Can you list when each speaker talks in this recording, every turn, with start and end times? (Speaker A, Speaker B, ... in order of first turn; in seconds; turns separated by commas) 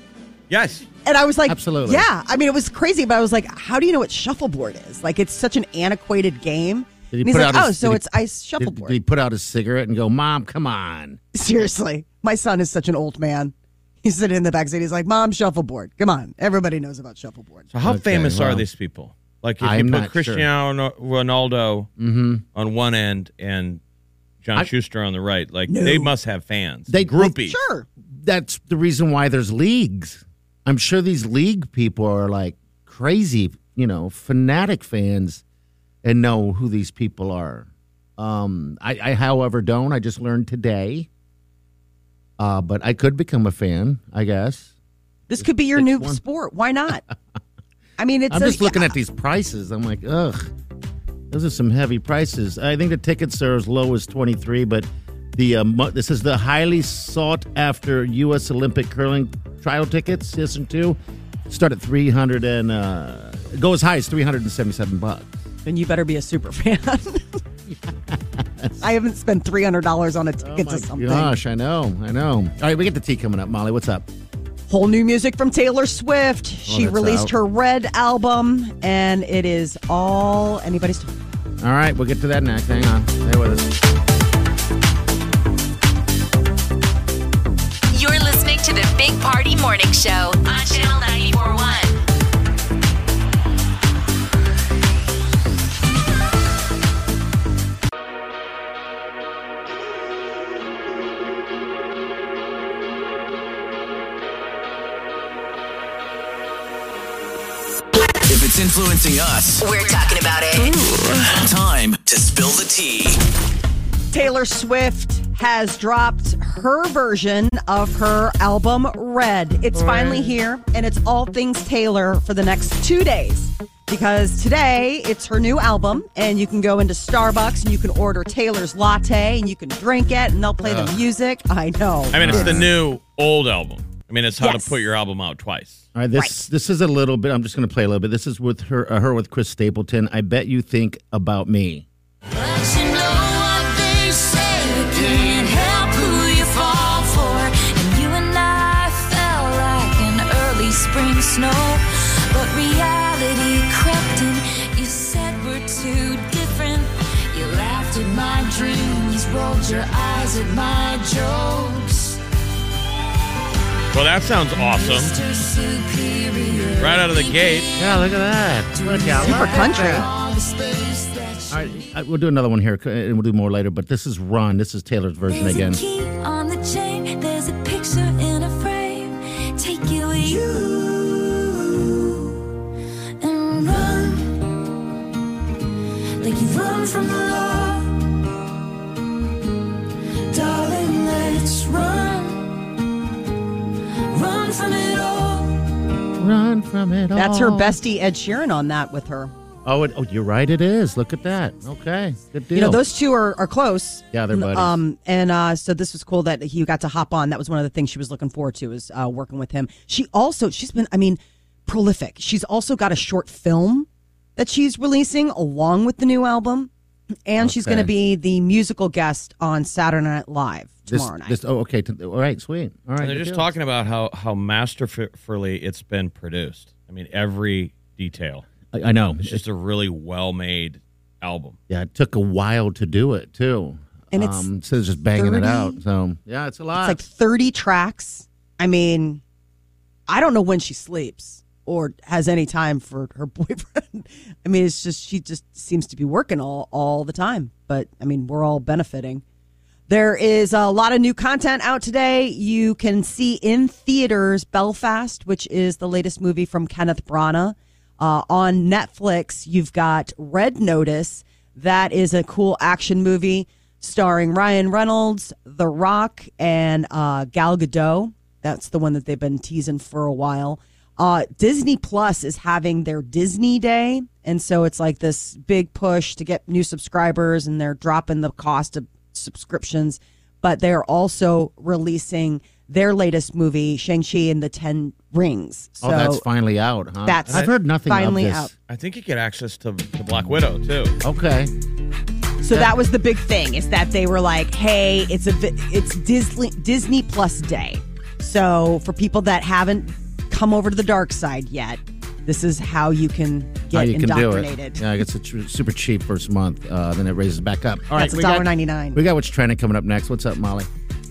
Speaker A: 0.5-0.8, Speaker B: 1.0-9.0, Speaker C: 1.5-2.1, Speaker C: 7.1-11.2, Speaker B: 11.3-17.6, Speaker A: 17.7-21.9, Speaker C: 17.8-18.6, Speaker C: 19.6-20.4, Speaker C: 22.0-22.4, Speaker A: 22.5-23.8, Speaker A: 24.4-27.6, Speaker B: 25.7-26.1, Speaker C: 26.9-27.3, Speaker B: 27.2-27.9, Speaker C: 28.1-35.4, Speaker C: 36.0-41.1, Speaker C: 42.4-44.7, Speaker B: 45.3-47.0, Speaker C: 45.4-46.2, Speaker B: 48.0-49.0, Speaker C: 48.3-50.5, Speaker C: 51.3-61.0, Speaker C: 61.5-65.3, Speaker B: 65.6-67.4, Speaker C: 67.9-68.8, Speaker B: 68.8-71.3, Speaker C: 70.4-74.1, Speaker B: 74.7-81.1, Speaker C: 76.7-77.3, Speaker C: 81.6-83.7, Speaker D: 87.9-92.0, Speaker E: 108.3-109.6, Speaker D: 109.6-110.8, Speaker E: 111.3-113.2, Speaker B: 114.1-132.6, Speaker C: 119.8-120.2, Speaker C: 130.6-130.9, Speaker A: 132.1-135.8, Speaker C: 132.1-132.7, Speaker B: 134.4-134.8, Speaker C: 135.9-141.8, Speaker F: 142.4-151.8, Speaker F: 152.3-162.1, Speaker A: 163.9-165.2, Speaker F: 164.8-167.6, Speaker A: 166.8-167.7, Speaker C: 167.8-170.0, Speaker F: 168.8-171.4, Speaker B: 169.2-170.1, Speaker C: 171.5-175.8, Speaker F: 175.4-180.5, Speaker F: 183.2-184.1, Speaker F: 186.2-187.8, Speaker F: 190.3-192.3, Speaker F: 194.2-195.4, Speaker C: 196.2-197.8, Speaker B: 197.1-199.3, Speaker C: 199.6-202.8, Speaker B: 202.5-216.7, Speaker C: 204.1-204.8, Speaker B: 217.2-221.3, Speaker C: 217.4-217.9, Speaker C: 220.9-223.5, Speaker A: 223.0-228.4, Speaker C: 228.7-229.4, Speaker A: 229.2-231.6, Speaker C: 231.7-237.0, Speaker B: 234.1-234.5, Speaker B: 235.1-235.8, Speaker B: 236.8-239.2, Speaker B: 240.1-249.2, Speaker B: 249.9-286.2, Speaker C: 285.8-288.5, Speaker B: 287.0-288.5, Speaker A: 288.7-290.9, Speaker C: 291.0-291.5, Speaker B: 292.4-304.8, Speaker C: 303.7-310.7, Speaker B: 307.9-309.0